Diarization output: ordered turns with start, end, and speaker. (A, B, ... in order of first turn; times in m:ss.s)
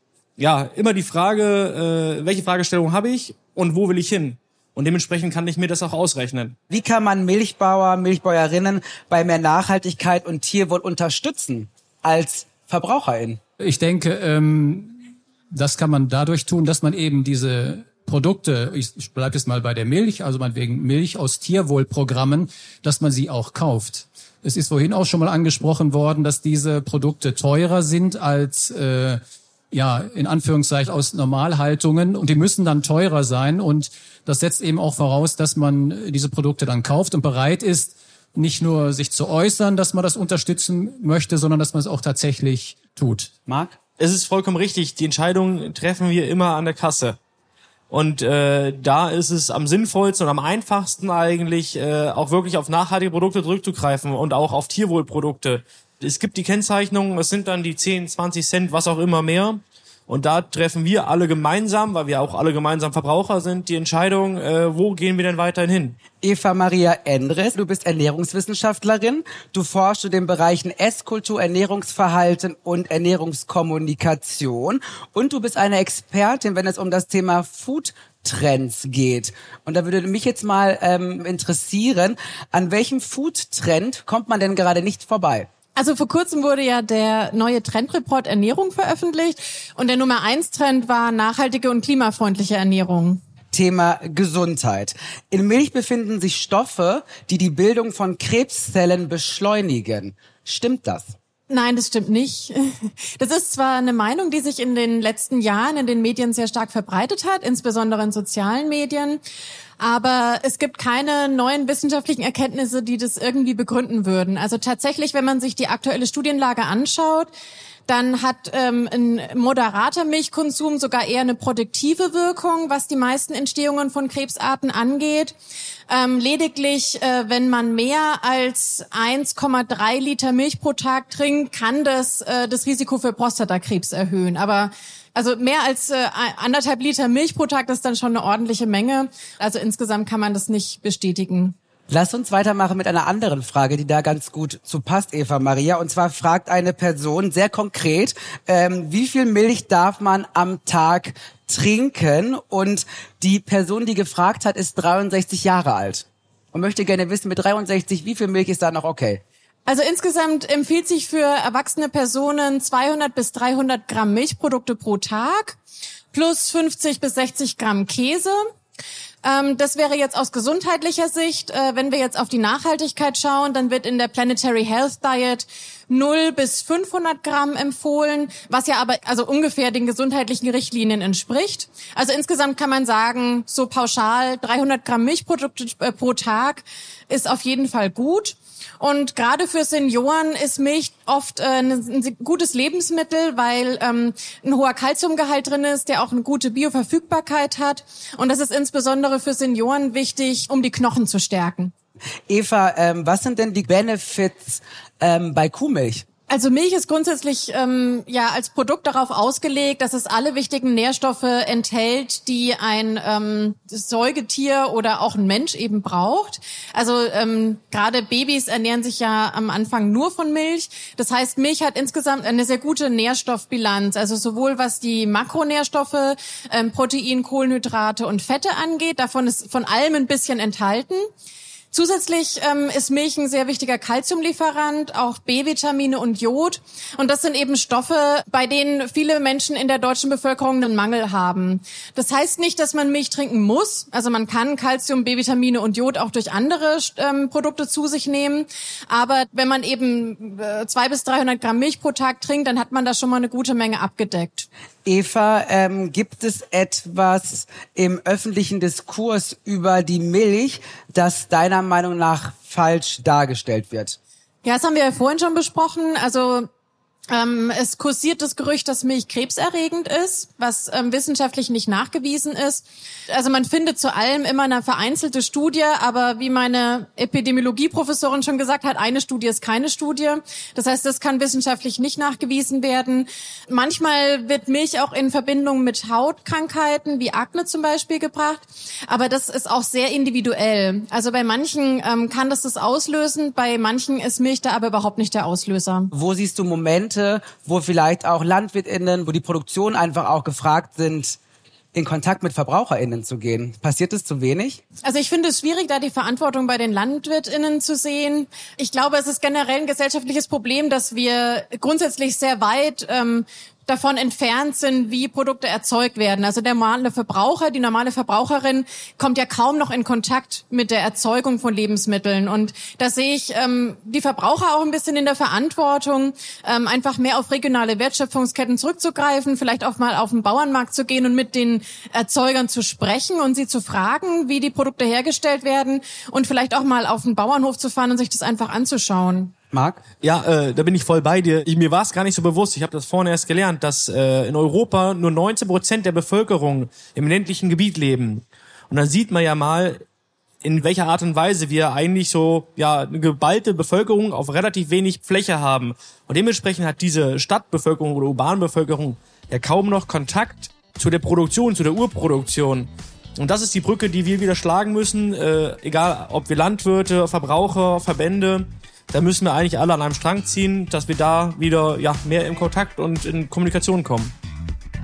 0:00.4-0:06.6 A
0:06.7-0:13.4 B
0:13.6-0:15.0 C
0:15.5-0:29.2 C
0:29.7-0:43.3 C
0:43.5-0:43.8 B
0:44.0-0:47.2 A
0:47.9-1:06.0 A
1:06.2-1:25.5 B
1:25.8-1:33.2 D
1:33.5-1:41.2 B
1:41.5-1:49.2 D
1:49.8-1:57.3 D
1:57.9-2:05.4 D
2:05.9-2:21.6 D
2:21.9-2:39.2 B
2:39.7-2:45.6 D
2:46.1-2:48.4 D
2:49.2-3:21.7 D
3:22.3-3:26.0 B
3:26.3-3:51.0 D
3:51.7-4:14.5 D
4:14.8-4:24.0 B
4:24.4-4:26.5 D
4:27.1-4:55.9 D
4:56.0-5:01.2 B
5:01.7-5:04.6 B
5:04.8-5:39.3 D
5:39.5-5:39.8 B
5:40.0-5:49.8 A
5:50.4-6:14.1 A